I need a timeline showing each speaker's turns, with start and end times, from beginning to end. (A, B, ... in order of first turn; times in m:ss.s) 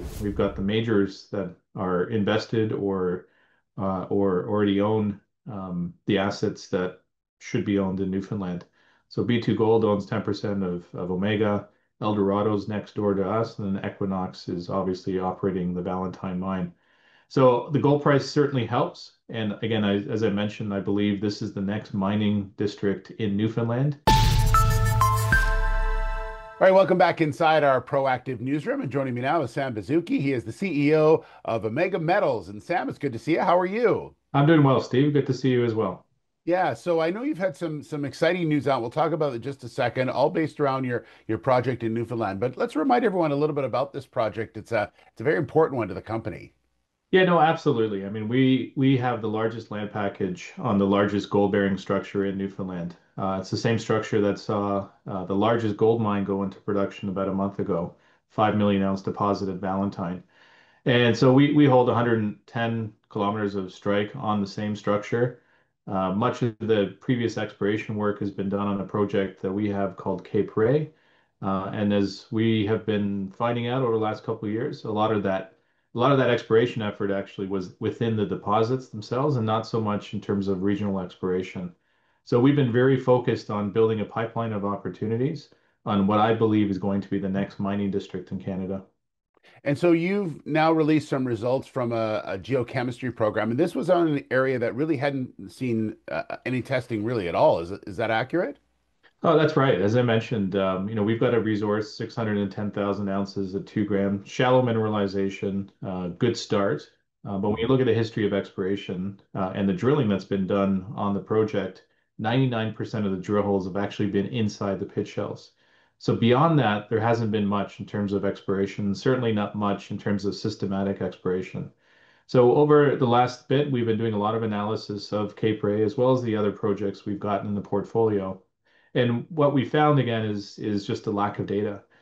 0:00.2-0:16.7 A
0:17.3-0:24.0 A
0:26.6-0:34.1 B
0:34.3-0:36.0 A
0:36.4-0:46.5 B
0:47.1-1:00.2 A
1:00.8-1:28.9 A
1:29.6-1:38.6 B
1:39.2-2:01.7 A
2:02.3-2:08.4 A
2:08.9-2:11.8 A